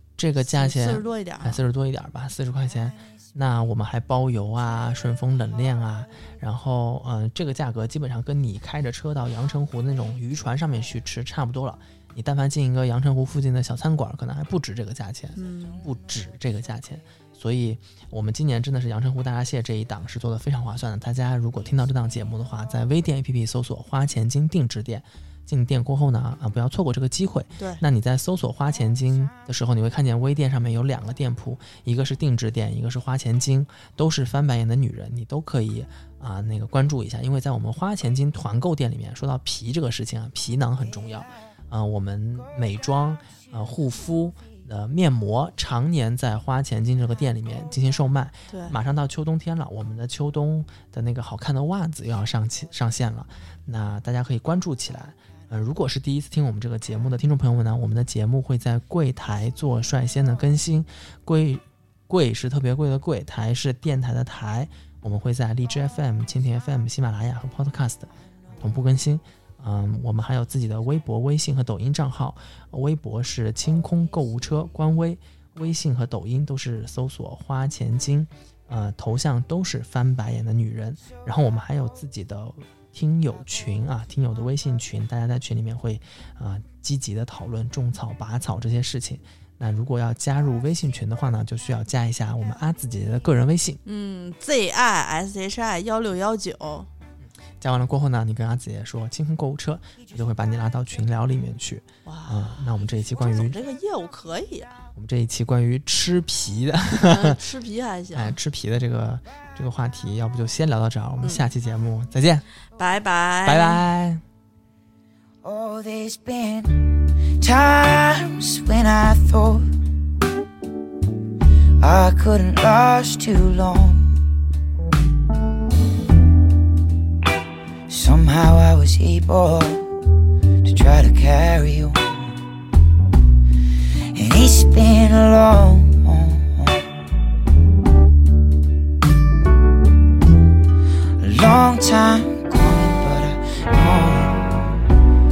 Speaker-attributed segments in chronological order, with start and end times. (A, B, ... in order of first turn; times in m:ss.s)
0:00.2-1:33.8 A
0:00.4-0:01.6 B
0:15.4-0:15.8 B
0:48.5-0:48.8 B
1:33.8-1:36.9 B
1:37.6-1:43.6 A
1:42.0-1:44.8 B
1:45.0-1:47.4 A
1:47.0-1:48.4 B
1:48.1-1:52.4 A
1:51.2-1:51.5 B
1:52.8-1:53.8 B
1:53.4-1:54.2 A
1:55.4-1:59.7 C
2:01.8-2:04.2 C
2:07.9-2:09.9 C
2:10.6-2:12.4 C
2:14.1-2:16.9 C
2:21.2-2:24.7 C